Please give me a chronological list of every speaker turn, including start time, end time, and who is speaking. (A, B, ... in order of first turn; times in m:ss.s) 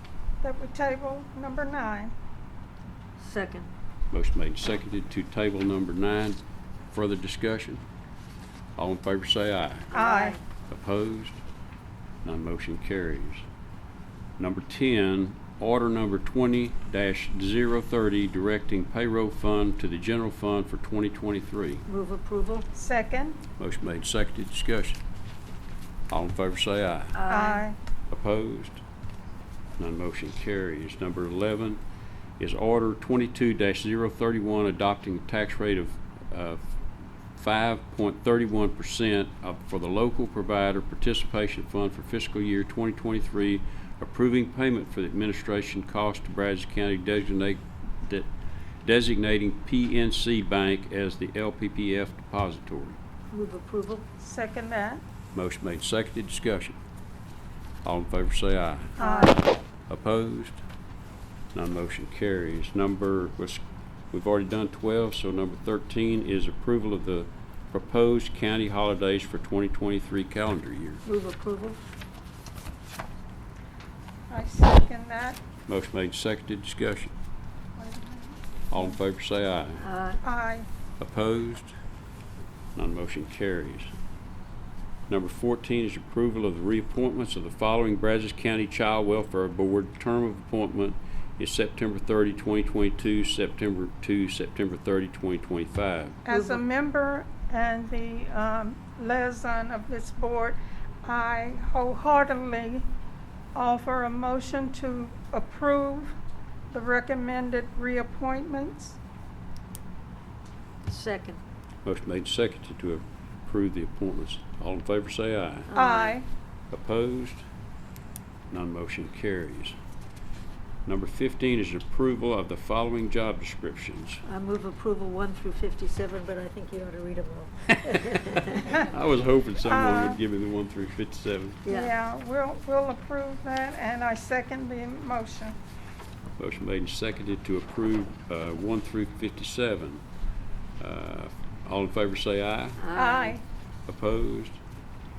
0:00.4-0:02.1 A
0:03.2-0:03.7 B
0:04.1-0:06.4 C
0:06.9-0:07.8 C
0:08.8-0:09.9 C
0:09.9-0:10.4 A
0:09.9-0:10.4 B
0:10.7-0:11.4 C
0:12.2-0:13.5 C
0:14.4-0:21.8 C
0:21.9-0:22.7 B
0:22.7-0:23.4 A
0:23.6-0:25.0 C
0:26.1-0:27.2 C
0:27.2-0:27.7 B
0:27.3-0:27.8 A
0:28.1-0:28.8 C
0:29.8-0:31.8 C
0:32.4-0:36.8 C
0:37.4-0:48.3 C
0:48.8-0:53.0 C
0:53.3-0:54.0 B
0:54.2-0:55.0 A
0:55.3-0:56.8 C
0:57.8-1:00.6 C
0:59.0-0:59.4 A
1:01.5-1:11.0 C
1:11.1-1:11.8 B
1:14.3-1:15.4 A
1:15.7-1:17.1 C
1:17.8-1:18.9 A
1:18.7-1:19.9 C
1:19.8-1:20.2 B
1:20.2-1:20.7 A
1:21.0-1:21.7 C
1:22.8-1:23.9 C
1:25.1-1:36.2 C
1:36.2-1:42.9 A
1:36.3-1:36.6 B
1:43.6-1:46.2 A
1:46.7-1:49.0 A
1:50.8-1:51.4 B
1:51.8-1:55.7 C
1:55.7-1:56.2 B
1:55.8-1:56.3 A
1:56.7-1:57.4 C
1:58.5-1:59.8 C
2:00.9-2:04.2 C
2:04.2-2:08.8 B
2:08.7-2:11.6 C
2:09.6-2:10.2 A
2:11.6-2:11.9 B
2:11.7-2:15.6 A
2:16.4-2:20.0 C
2:20.8-2:22.9 C
2:22.8-2:23.4 B
2:22.9-2:23.4 A
2:23.9-2:24.6 C